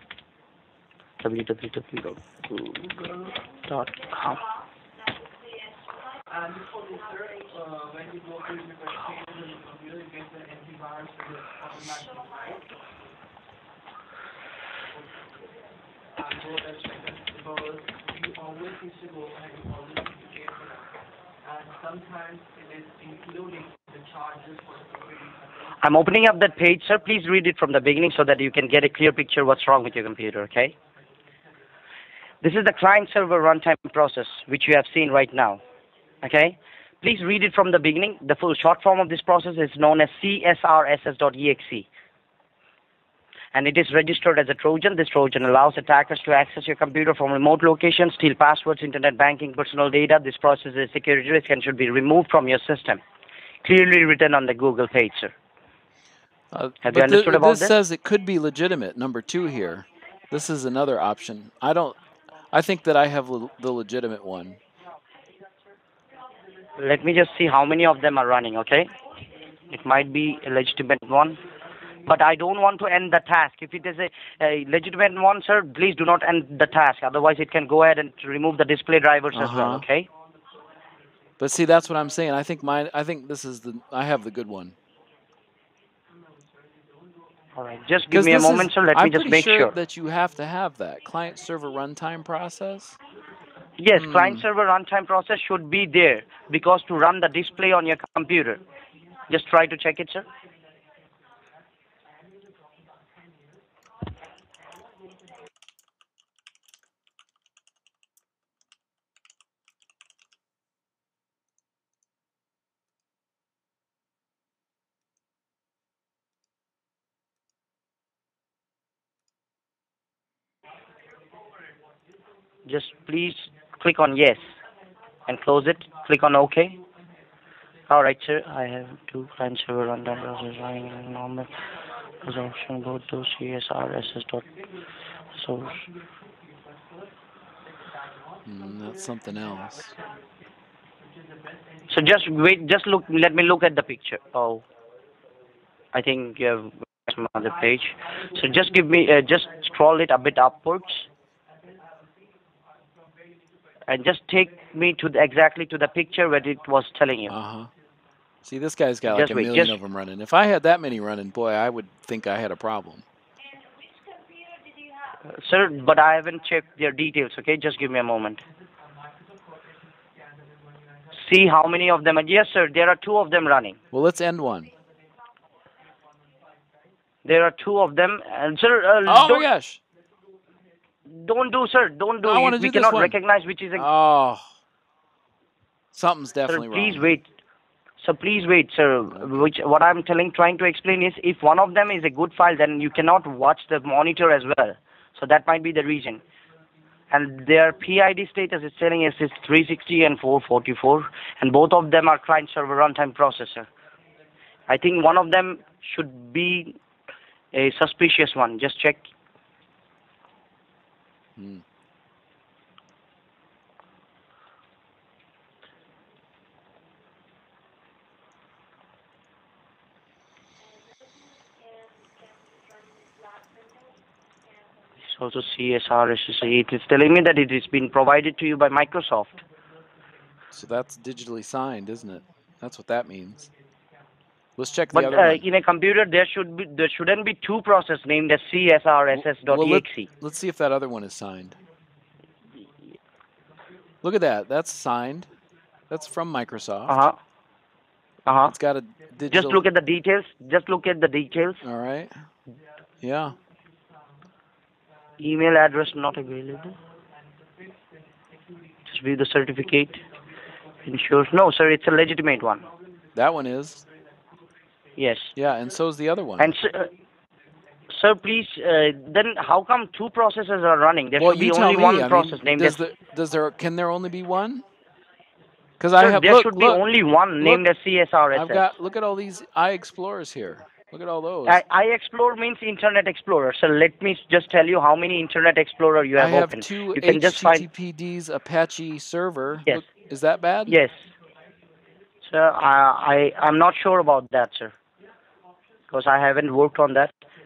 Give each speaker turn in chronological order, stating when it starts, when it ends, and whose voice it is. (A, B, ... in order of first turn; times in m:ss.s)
0:01.2-0:03.0 A
0:03.7-0:04.4 A
0:05.7-0:06.0 B
0:06.8-0:07.7 B
0:12.0-0:12.3 B
0:25.8-0:30.7 A
0:32.4-0:35.6 A
0:36.2-0:41.9 A
0:43.5-0:53.0 A
0:53.6-0:55.3 A
0:56.5-1:02.0 C
0:56.8-0:57.7 A
1:02.5-1:04.6 C
1:06.8-1:08.9 A
1:09.7-1:11.4 A
1:12.0-1:20.1 A
1:19.3-1:19.8 C
1:21.4-1:24.7 C
1:27.6-1:29.7 A
1:28.1-1:33.0 C
1:33.8-1:38.6 A
1:33.9-1:34.4 C
1:39.3-1:40.2 A
2:02.7-2:04.4 A
2:05.3-2:06.8 A
2:07.9-2:11.5 A
2:12.2-2:14.4 A
2:15.3-2:15.8 A
2:18.4-2:20.0 C
2:21.9-2:24.6 A
2:25.9-2:31.1 A
2:33.9-2:37.3 A
2:37.3-2:37.7 C
2:38.4-2:43.0 C
2:39.1-2:39.7 A
2:43.5-2:45.2 B
2:45.2-2:48.4 A
2:51.1-2:53.8 A
2:53.9-2:54.7 C
2:57.2-2:59.5 A
2:59.0-2:59.8 C
3:01.1-3:03.9 A
3:02.2-3:03.2 C
3:03.8-3:04.4 C
3:05.9-3:07.1 C
3:06.5-3:07.3 A
3:08.0-3:16.2 A
3:09.1-3:09.5 C
3:17.1-3:23.7 A
3:24.7-3:26.8 A
3:27.5-3:29.1 A
3:31.4-3:31.6 C
3:43.1-3:43.6 B
3:45.1-3:49.4 A
3:50.5-3:53.5 C
3:54.6-3:55.4 C
3:54.9-4:00.1 A
3:59.1-4:01.6 C
4:04.0-4:05.3 C
4:05.9-4:07.0 C
4:06.9-4:07.2 A
4:08.2-4:08.5 A
4:08.4-4:09.6 C
4:09.3-4:11.6 A
4:11.6-4:12.1 C
4:13.0-4:13.3 C
4:15.2-4:16.8 A
4:18.8-4:20.0 A
4:20.8-4:22.6 A
4:23.1-4:23.8 C
4:25.0-4:25.3 A
4:25.4-4:26.5 C
4:26.4-4:26.9 A
4:27.9-4:32.8 A
4:31.2-4:34.6 C
4:35.8-4:36.8 C
4:36.0-4:38.7 A
4:38.3-4:41.6 C
4:41.5-4:47.6 A
4:46.2-4:50.8 C
4:50.7-4:51.0 A
4:52.2-4:54.7 A
4:55.9-4:57.1 A